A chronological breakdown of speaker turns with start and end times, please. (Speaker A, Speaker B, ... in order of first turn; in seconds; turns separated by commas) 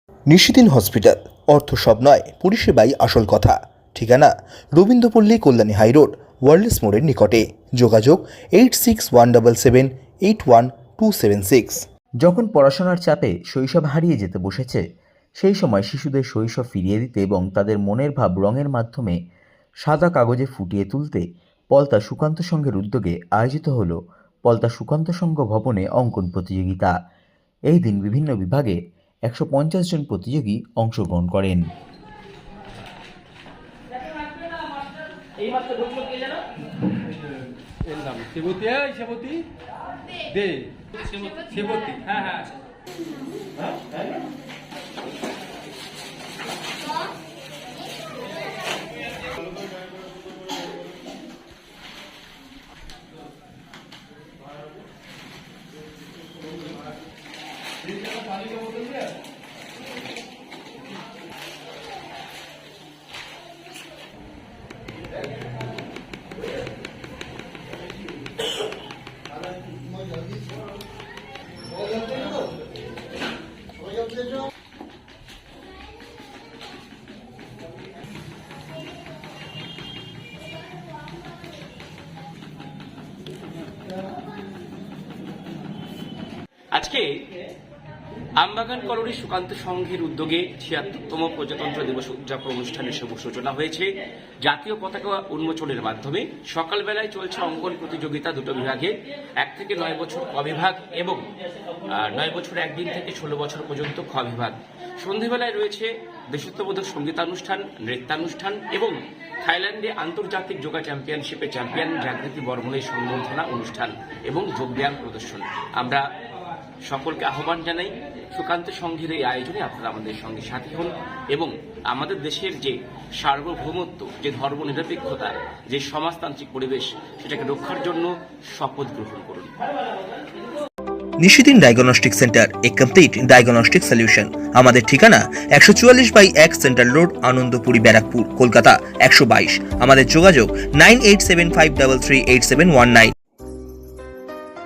Speaker A: 0.3-11.8, Speaker B: 12.2-14.8, Speaker B: 15.4-19.2, Speaker B: 19.8-26.9, Speaker B: 27.7-31.7, Speaker C: 37.9-39.5, Speaker D: 38.0-38.3, Speaker C: 40.4-40.7, Speaker D: 41.0-42.3, Speaker D: 86.7-87.2, Speaker D: 88.4-116.0, Speaker D: 116.8-129.5, Speaker A: 131.2-143.1